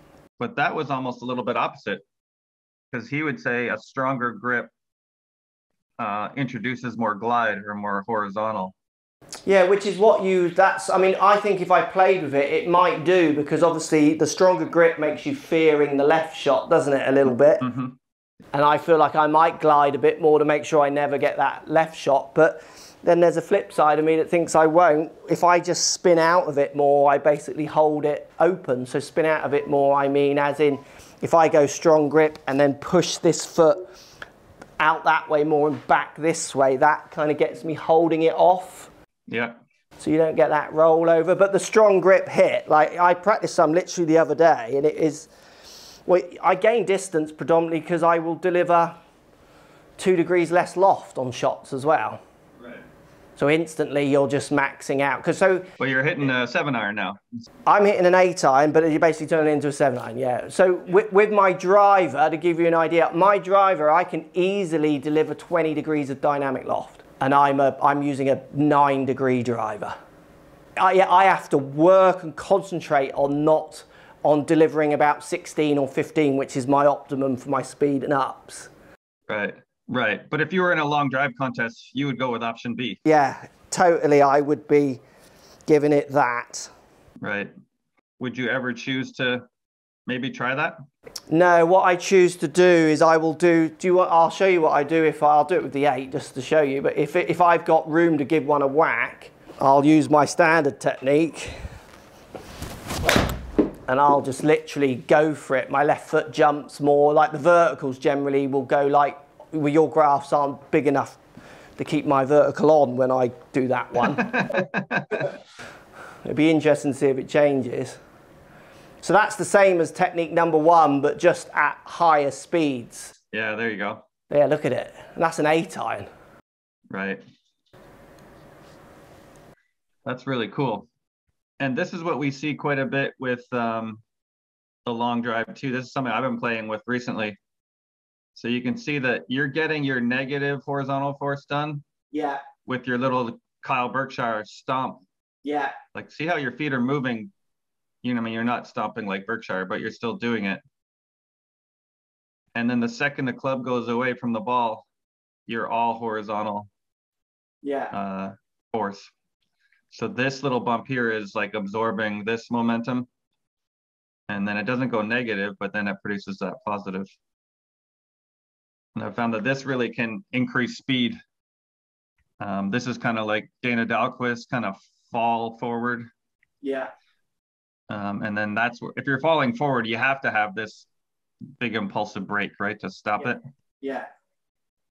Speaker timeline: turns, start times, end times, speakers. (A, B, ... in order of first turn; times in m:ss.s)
0:00.4-0:02.0 A
0:02.9-0:04.7 A
0:06.0-0:08.7 A
0:09.4-0:17.6 B
0:17.6-0:18.0 A
0:18.5-0:33.8 B
0:34.8-0:38.9 B
0:39.3-0:39.6 A
0:40.0-0:45.3 B
0:46.1-0:48.9 B
0:50.0-0:52.2 B
0:52.6-0:52.8 A
0:53.4-0:55.7 B
0:55.8-0:57.2 A
0:57.7-1:09.9 B
1:10.8-1:18.7 B
1:19.3-1:23.0 A
1:23.0-1:25.0 B
1:25.7-1:26.7 B
1:27.2-1:27.5 A
1:28.2-1:29.4 A
1:30.1-1:30.8 A
1:31.3-1:41.6 B
1:43.9-1:51.2 B
1:51.8-1:54.3 B
1:54.1-1:55.2 A
1:56.2-1:58.0 B
1:59.0-2:03.1 B
2:03.3-2:04.0 A
2:04.3-2:06.1 B
2:06.9-2:07.2 A
2:10.0-2:10.9 A
2:11.6-2:14.0 A
2:14.8-2:17.4 A
2:18.3-2:21.8 A
2:22.1-2:22.4 B
2:22.6-2:25.0 A
2:25.4-2:25.7 B
2:25.9-2:27.3 A
2:28.0-2:30.6 A
2:32.5-2:34.8 A
2:35.5-2:36.7 A
2:37.6-2:37.9 B
2:37.9-2:39.1 A
2:39.9-2:43.1 A
2:44.3-2:47.1 A
2:48.9-2:51.2 A
2:52.4-2:56.1 A
2:56.6-2:56.9 B
2:57.9-3:00.9 A
3:01.6-3:03.4 A
3:03.8-3:04.1 B